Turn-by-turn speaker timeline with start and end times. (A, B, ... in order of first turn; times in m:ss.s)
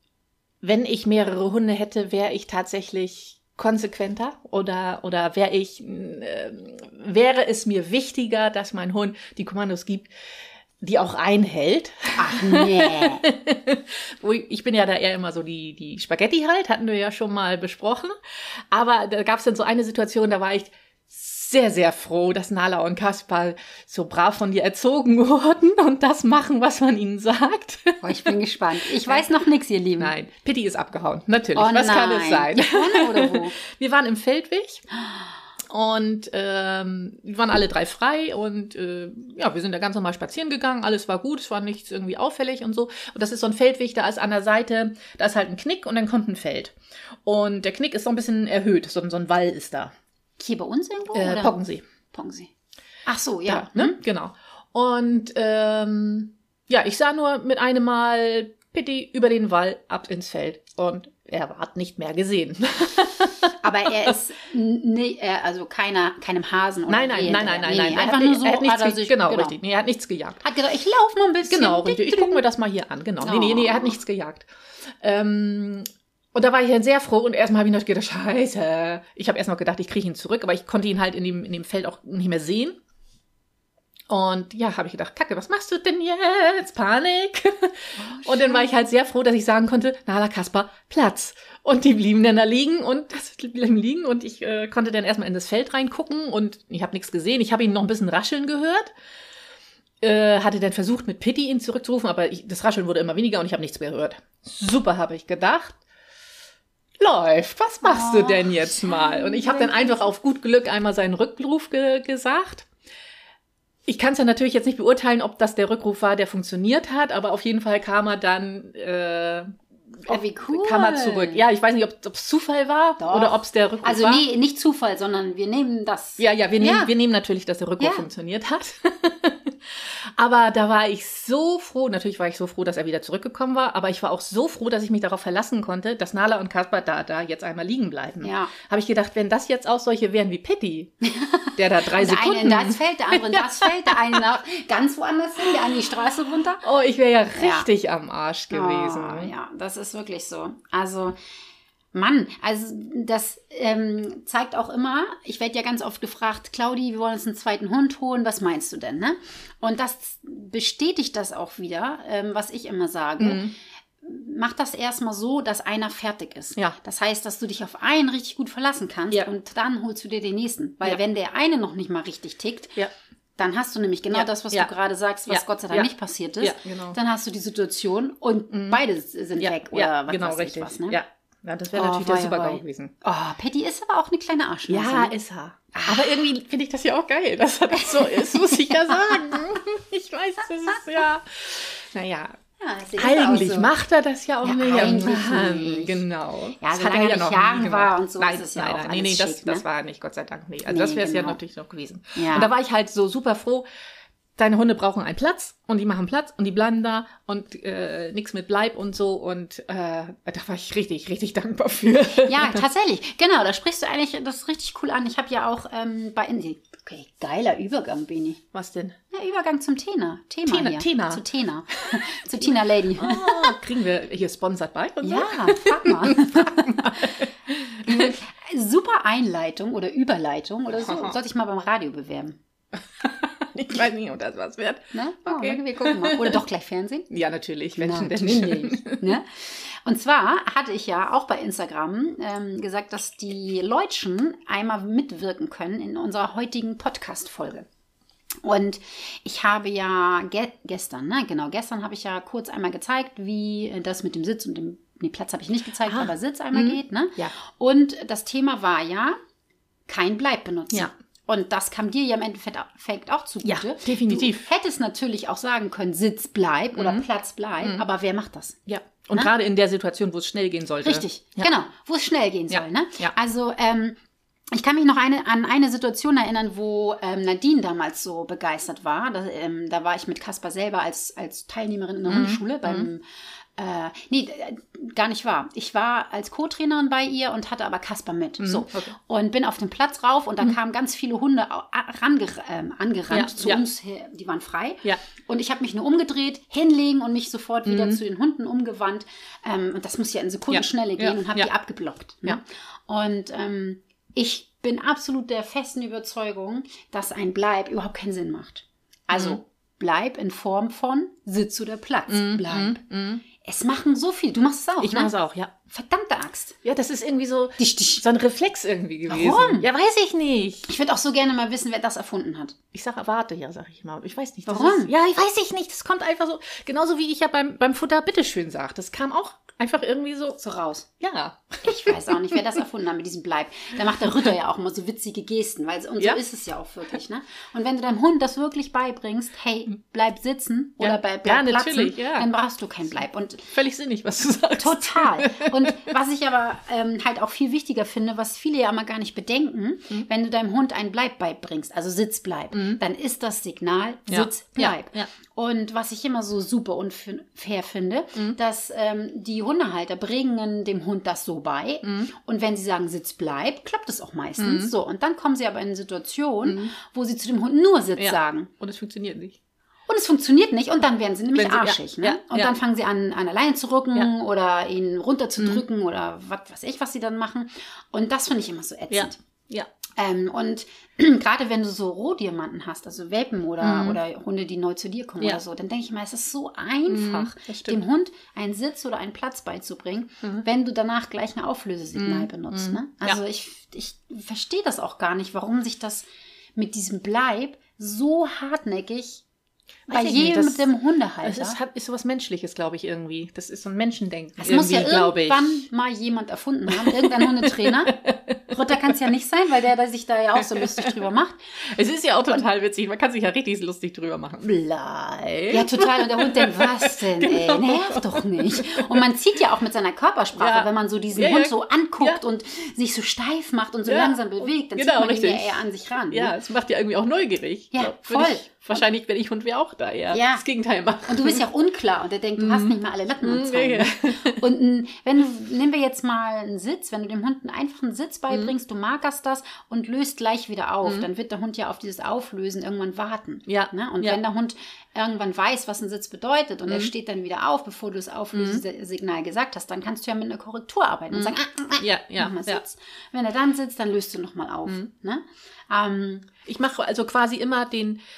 0:00.6-0:10.1 A
0:10.8-0:28.3 A
0:12.2-0:13.2 B
0:28.0-0:30.1 B
0:28.8-0:29.2 A
0:30.0-0:34.8 A
0:31.5-0:33.6 B
0:35.7-0:49.9 A
0:50.4-0:51.6 B
0:51.1-0:51.8 A
0:52.1-0:52.5 B
0:53.0-0:54.0 B
0:53.5-1:03.5 A
1:03.6-1:09.6 B
1:06.9-1:10.4 A
1:10.4-1:12.4 B
1:11.4-1:22.8 A
1:13.2-1:14.0 B
1:24.1-1:38.9 A
1:28.0-1:28.7 B
1:40.0-1:45.8 A
1:47.0-1:52.7 A
1:47.8-1:50.1 B
1:53.9-2:04.2 A
2:00.0-2:01.4 B
2:03.0-2:06.9 B
2:06.2-2:20.9 A
2:07.8-2:08.0 B
2:18.2-2:18.5 B
2:21.0-2:26.6 B
2:21.6-2:24.2 A
2:26.6-2:29.3 A
2:27.3-2:27.7 B
2:28.5-2:31.2 B
2:31.9-2:43.5 B
2:43.2-2:43.5 A
2:44.0-2:52.8 B
2:53.4-3:01.0 B
2:54.1-2:54.7 A
2:55.3-2:55.9 A
2:56.4-2:57.0 A
2:58.5-2:58.8 A
2:59.4-3:02.9 A
3:01.7-3:05.1 B
3:04.7-3:12.4 A
3:05.7-3:06.2 B
3:07.7-3:09.4 B
3:12.6-3:13.7 B
3:13.0-3:23.6 A
3:14.4-3:16.0 B
3:16.6-3:19.6 B
3:20.7-3:21.4 B
3:22.1-3:22.5 B
3:24.4-3:32.6 A
3:32.3-3:38.4 B
3:38.5-3:39.0 A
3:39.1-3:43.6 B
3:40.5-3:41.2 A
3:41.9-3:48.1 A
3:45.0-3:47.3 B
3:47.8-3:52.4 B
3:50.8-3:51.2 A
3:53.0-3:56.4 A
3:54.9-3:57.1 B
3:57.1-3:59.1 A
3:57.7-4:07.7 B
4:08.4-4:19.2 B
4:15.9-4:17.3 A
4:19.9-4:28.6 B
4:23.4-4:24.5 A
4:26.7-4:27.0 A
4:28.7-4:31.5 A
4:30.8-4:34.0 B
4:32.5-4:33.1 A
4:34.5-4:43.0 B
4:42.1-4:42.9 A
4:43.6-5:12.8 B
4:48.4-4:48.9 A
4:53.1-4:53.6 A
4:57.6-4:58.0 A
5:00.5-5:01.5 A
5:09.1-5:09.4 A
5:12.1-5:13.2 A
5:13.4-5:15.1 B
5:14.8-5:15.5 A
5:15.7-5:16.6 B
5:16.6-5:20.7 A
5:17.6-5:18.0 B
5:19.1-5:19.7 B
5:20.6-5:22.5 B
5:22.7-5:30.4 A
5:24.5-5:24.9 B
5:30.4-5:30.9 B
5:31.0-5:32.6 A
5:31.6-5:43.5 B
5:40.8-5:42.3 A
5:43.5-5:45.7 A
5:44.6-6:08.5 B
5:52.5-5:52.8 A
5:54.1-5:55.1 A
6:01.8-6:02.1 A
6:04.4-6:04.7 A
6:06.4-6:06.7 A
6:08.0-6:09.4 A
6:09.9-6:19.2 B
6:11.4-6:12.5 A
6:18.9-6:19.7 A
6:20.0-6:39.2 B
6:23.6-6:24.0 A
6:26.9-6:27.8 A
6:32.0-6:33.2 A
6:39.9-6:40.7 A
6:39.9-6:41.6 B
6:41.2-6:45.6 A
6:44.4-6:51.4 B
6:46.7-6:49.0 A
6:50.4-6:50.9 A
6:51.7-6:59.0 A
6:55.5-7:06.3 B
7:00.4-7:02.2 A
7:03.8-7:11.4 A
7:07.7-7:08.8 B
7:10.1-7:10.4 B
7:11.1-7:36.3 B
7:12.4-7:14.4 A
7:23.5-7:24.2 A
7:28.3-7:28.6 A
7:31.1-7:32.6 A
7:36.4-7:38.0 A